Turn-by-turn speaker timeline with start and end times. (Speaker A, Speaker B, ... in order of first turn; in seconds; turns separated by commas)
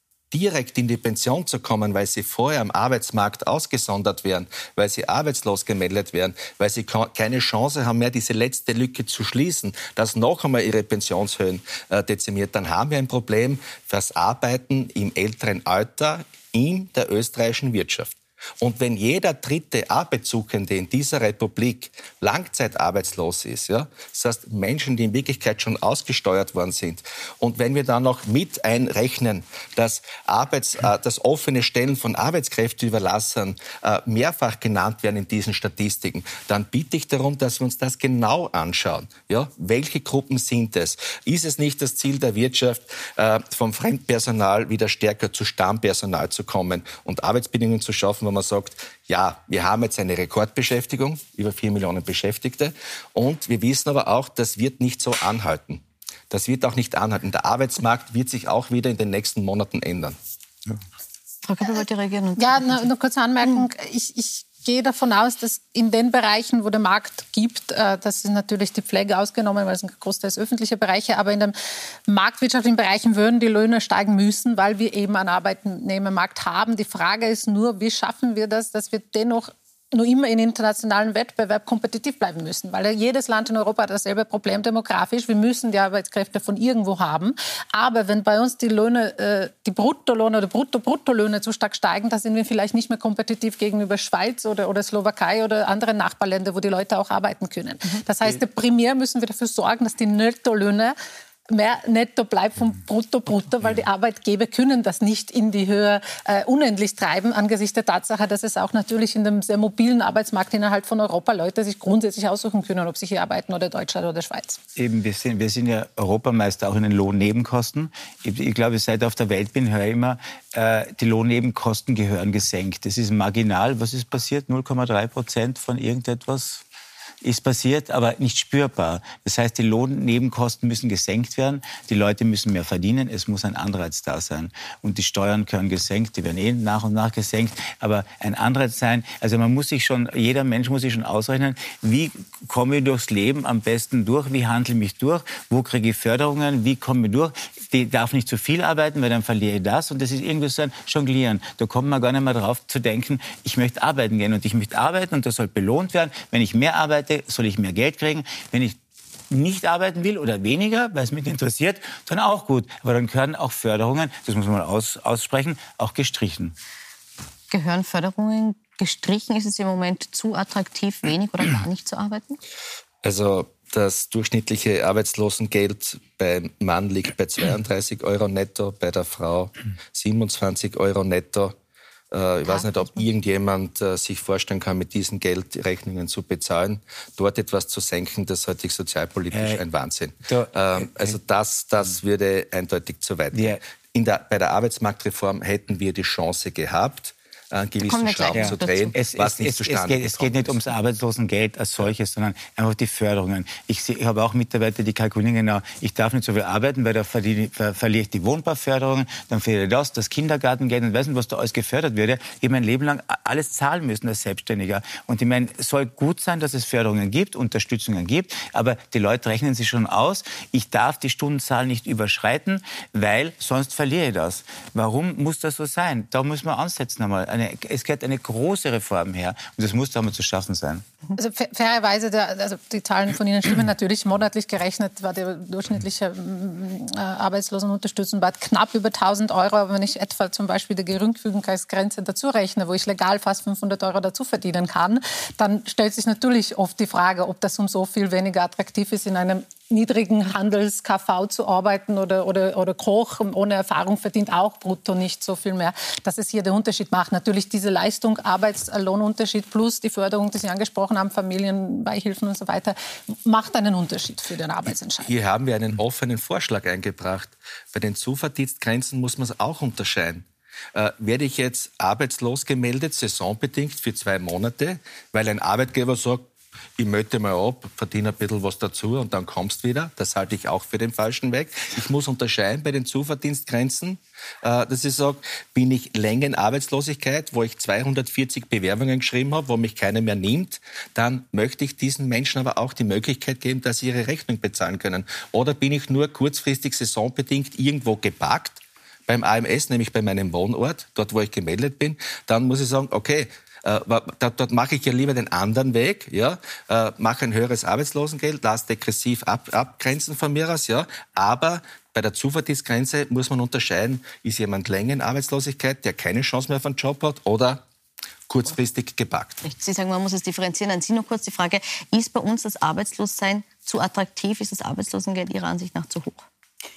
Speaker A: 0.3-60.2, Speaker B: 61.4-62.9, Speaker C: 62.4-71.5, Speaker B: 63.4-63.7, Speaker C: 72.1-100.9, Speaker C: 101.5-114.6, Speaker D: 114.8-126.6, Speaker D: 127.2-158.8, Speaker D: 159.3-166.5, Speaker B: 167.5-172.4, Speaker A: 173.0-181.6, Speaker A: 182.1-200.6, Speaker B: 182.4-183.1, Speaker D: 189.3-189.6, Speaker D: 190.3-191.2, Speaker D: 193.3-193.6, Speaker B: 197.8-198.9, Speaker D: 198.3-230.8, Speaker C: 231.2-265.1, Speaker A: 265.0-317.6, Speaker A: 318.3-319.4, Speaker B: 319.4-326.3